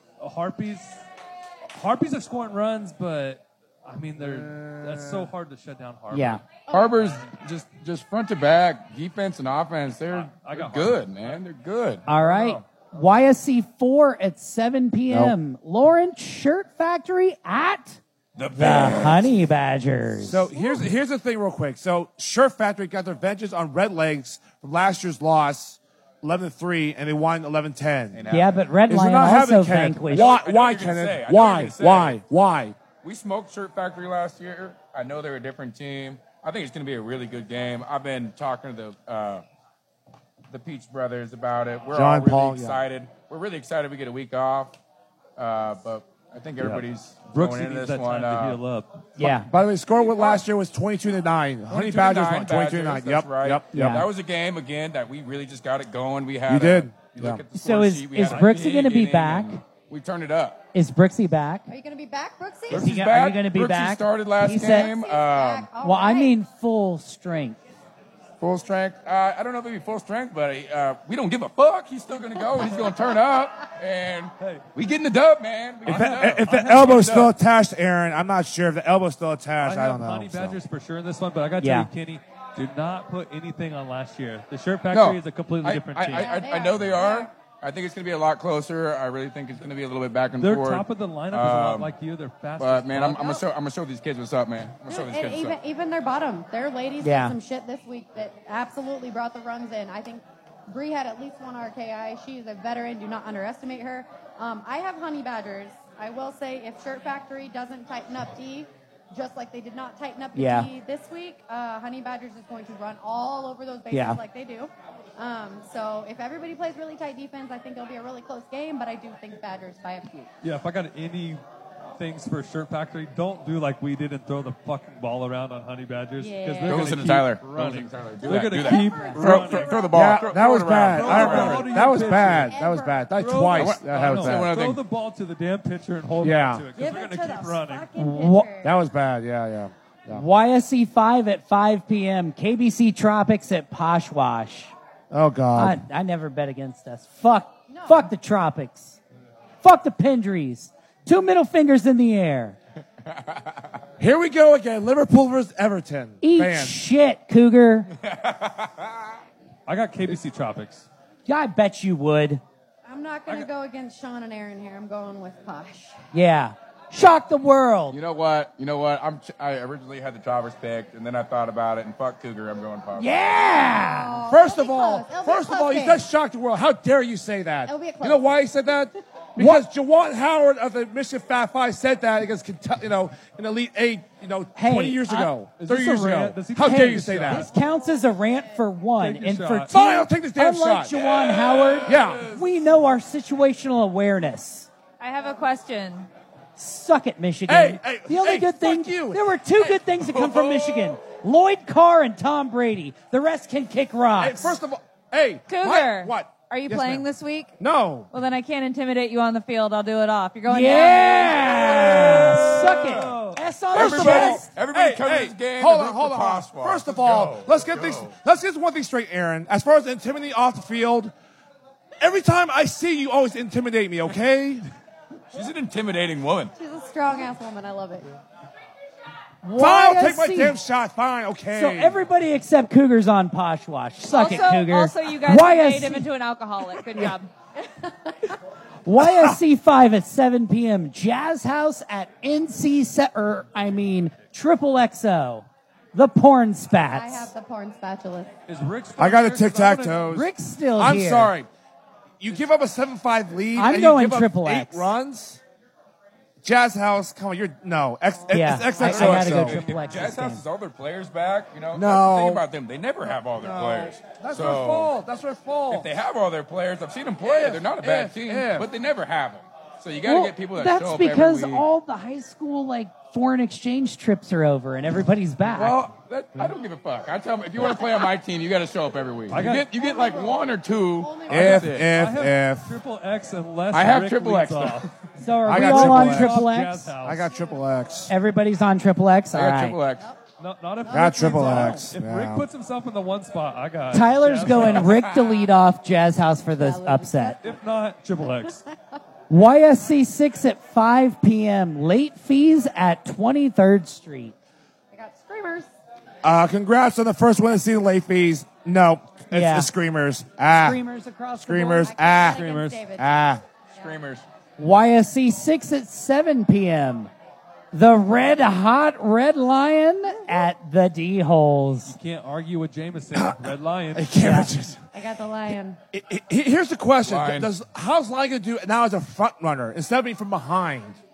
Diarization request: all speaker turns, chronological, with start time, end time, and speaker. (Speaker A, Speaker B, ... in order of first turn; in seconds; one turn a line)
Speaker A: 0.2-1.0
Speaker A: 1.7-6.4
Speaker B: 4.2-5.3
Speaker C: 6.1-6.4
Speaker D: 6.7-7.1
Speaker E: 6.7-12.1
Speaker A: 10.1-11.4
Speaker C: 12.1-18.0
Speaker A: 12.1-12.6
Speaker B: 15.1-15.3
Speaker E: 18.4-19.3
Speaker C: 18.5-20.5
Speaker B: 20.2-28.2
Speaker E: 28.1-28.7
Speaker C: 28.3-30.3
Speaker B: 28.9-32.8
Speaker E: 30.1-32.2
Speaker E: 33.0-39.4
Speaker E: 40.5-44.8
Speaker B: 41.9-42.8
Speaker E: 45.4-48.6
Speaker A: 47.3-49.1
Speaker C: 49.2-49.5
Speaker B: 49.2-54.0
Speaker E: 50.0-50.4
Speaker E: 51.7-60.6
Speaker C: 53.7-54.1
Speaker B: 56.5-57.4
Speaker C: 57.5-59.6
Speaker C: 60.7-61.7
Speaker D: 61.7-63.0
Speaker E: 62.7-65.7
Speaker C: 62.7-64.9
Speaker D: 64.5-66.3
Speaker C: 65.8-67.6
Speaker E: 68.4-77.3
Speaker A: 74.4-74.7
Speaker A: 75.8-77.3
Speaker B: 75.9-80.6
Speaker A: 79.6-86.4
Speaker C: 81.6-81.9
Speaker E: 84.9-91.9
Speaker D: 86.1-87.3
Speaker A: 90.4-93.3
Speaker E: 92.6-95.6
Speaker D: 93.2-93.5
Speaker D: 94.9-120.3
Speaker C: 97.0-97.4
Speaker C: 110.3-110.7
Speaker C: 113.9-114.2
Speaker A: 120.4-121.4
Speaker A: 122.0-129.8
Speaker D: 126.2-126.9
Speaker E: 126.6-131.7
Speaker D: 128.3-130.1
Speaker B: 129.9-134.5
Speaker A: 130.9-132.6
Speaker D: 131.2-133.3
Speaker A: 133.1-137.9
Speaker E: 133.5-134.8
Speaker B: 136.2-136.7
Speaker D: 136.8-138.8
Speaker C: 137.9-138.5
Speaker B: 138.6-140.2
Speaker C: 140.1-144.7
Speaker B: 145.1-145.8
Speaker C: 145.6-149.0
Speaker D: 147.7-148.1
Speaker C: 149.6-152.6
Speaker B: 154.0-156.8
Speaker C: 156.2-157.9
Speaker E: 158.0-159.0
Speaker A: 159.7-160.9
Speaker C: 161.3-162.4
Speaker D: 162.8-166.0
Speaker C: 166.1-168.0
Speaker E: 167.9-173.5
Speaker C: 173.0-174.2
Speaker D: 173.6-176.0
Speaker B: 174.3-187.5
Speaker D: 177.7-178.4
Speaker C: 179.4-179.6
Speaker C: 184.6-185.3
Speaker A: 185.6-187.5
Speaker C: 186.6-194.7
Speaker A: 189.0-189.7
Speaker B: 189.7-191.0
Speaker E: 191.0-192.4
Speaker B: 191.9-192.3
Speaker F: 195.0-196.1
Speaker C: 196.6-204.6
Speaker B: 197.5-199.4
Speaker E: 199.9-201.0
Speaker B: 204.2-207.1
Speaker F: 205.5-207.6
Speaker B: 207.6-208.1
Speaker F: 208.1-211.5
Speaker C: 210.5-214.5
Speaker E: 211.3-212.9
Speaker A: 212.8-213.3
Speaker E: 213.7-218.1
Speaker B: 213.7-221.1
Speaker B: 222.0-224.7
Speaker E: 225.3-226.5
Speaker D: 226.6-228.1
Speaker C: 229.4-230.6
Speaker B: 229.6-232.1
Speaker C: 231.5-236.1
Speaker F: 234.1-237.3
Speaker D: 237.7-238.3
Speaker C: 238.8-247.3
Speaker D: 246.8-248.3
Speaker A: 248.5-250.1
Speaker B: 249.0-251.5
Speaker C: 250.1-251.3
Speaker B: 252.2-255.4
Speaker C: 253.6-254.9
Speaker B: 256.4-259.6
Speaker C: 258.3-260.4
Speaker E: 258.8-264.9
Speaker B: 261.7-262.4
Speaker B: 263.4-265.9
Speaker E: 265.7-271.7
Speaker B: 267.2-268.7
Speaker C: 270.1-275.8
Speaker E: 275.5-281.9
Speaker A: 279.3-279.7
Speaker D: 279.4-281.9
Speaker B: 281.3-282.8
Speaker A: 281.9-284.9
Speaker E: 283.7-284.9
Speaker C: 285.2-286.9
Speaker A: 285.4-287.3
Speaker B: 285.5-286.5
Speaker B: 287.0-288.1
Speaker C: 288.1-289.8
Speaker E: 289.3-290.1
Speaker A: 290.4-294.9
Speaker D: 290.8-291.9
Speaker B: 290.9-292.5
Speaker C: 293.9-297.4
Speaker E: 294.8-295.5
Speaker D: 296.6-297.6
Speaker A: 297.4-298.6
Speaker C: 299.3-304.4
Speaker D: 304.9-305.7
Speaker B: 306.2-310.8
Speaker C: 309.3-309.7
Speaker C: 310.6-311.9
Speaker B: 311.4-313.4
Speaker D: 311.8-313.1
Speaker A: 312.2-312.8
Speaker E: 313.7-314.2
Speaker C: 314.6-317.1
Speaker C: 317.7-322.0
Speaker A: 321.9-324.1
Speaker B: 323.1-324.8
Speaker C: 324.2-324.5
Speaker D: 324.9-325.8
Speaker B: 325.9-331.0
Speaker E: 327.1-327.5